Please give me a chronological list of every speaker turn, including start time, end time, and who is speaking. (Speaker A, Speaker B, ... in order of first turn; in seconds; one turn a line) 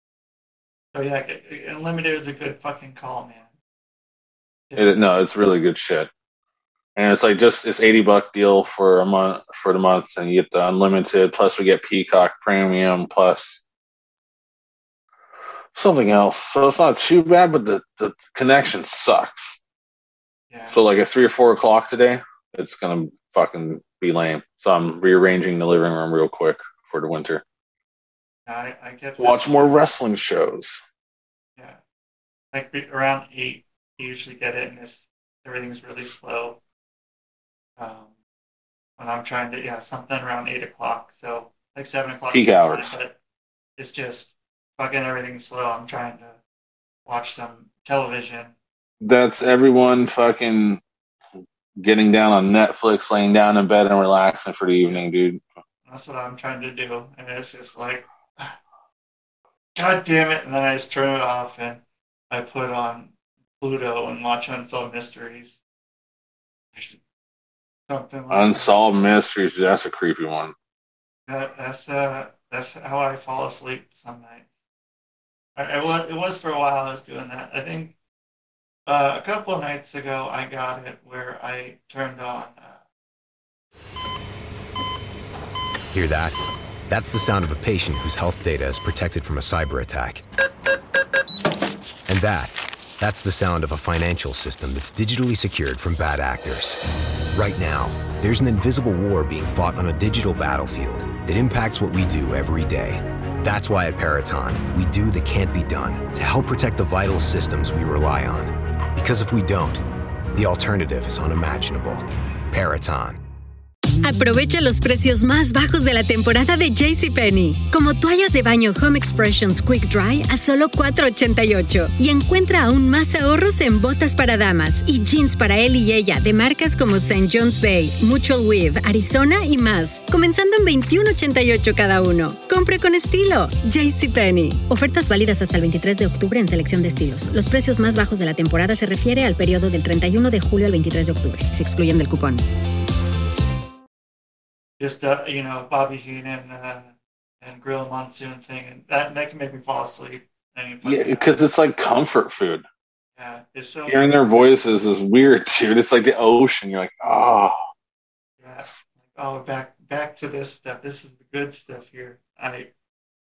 Speaker A: 0.9-3.5
Speaker A: 4.7-5.2
Speaker B: 4.8-6.1
Speaker B: 7.0-13.6
Speaker B: 15.7-19.6
Speaker A: 20.5-20.8
Speaker B: 20.7-27.4
Speaker A: 28.4-29.8
Speaker B: 29.2-30.8
Speaker A: 32.5-36.6
Speaker A: 37.8-38.1
Speaker A: 39.0-43.2
Speaker B: 42.3-43.0
Speaker A: 43.8-46.4
Speaker A: 47.0-48.5
Speaker B: 49.0-50.8
Speaker B: 51.8-55.4
Speaker A: 55.9-58.5
Speaker A: 59.8-65.6
Speaker A: 67.9-68.8
Speaker B: 68.3-70.5
Speaker A: 71.3-74.5
Speaker A: 75.5-77.9
Speaker A: 78.8-82.8
Speaker C: 85.9-86.3
Speaker C: 86.9-90.2
Speaker C: 92.1-96.8
Speaker C: 97.3-113.2
Speaker D: 114.0-142.4
Speaker A: 144.8-151.4
Speaker B: 150.8-152.6
Speaker A: 153.2-154.2
Speaker B: 153.9-157.6
Speaker A: 158.4-162.7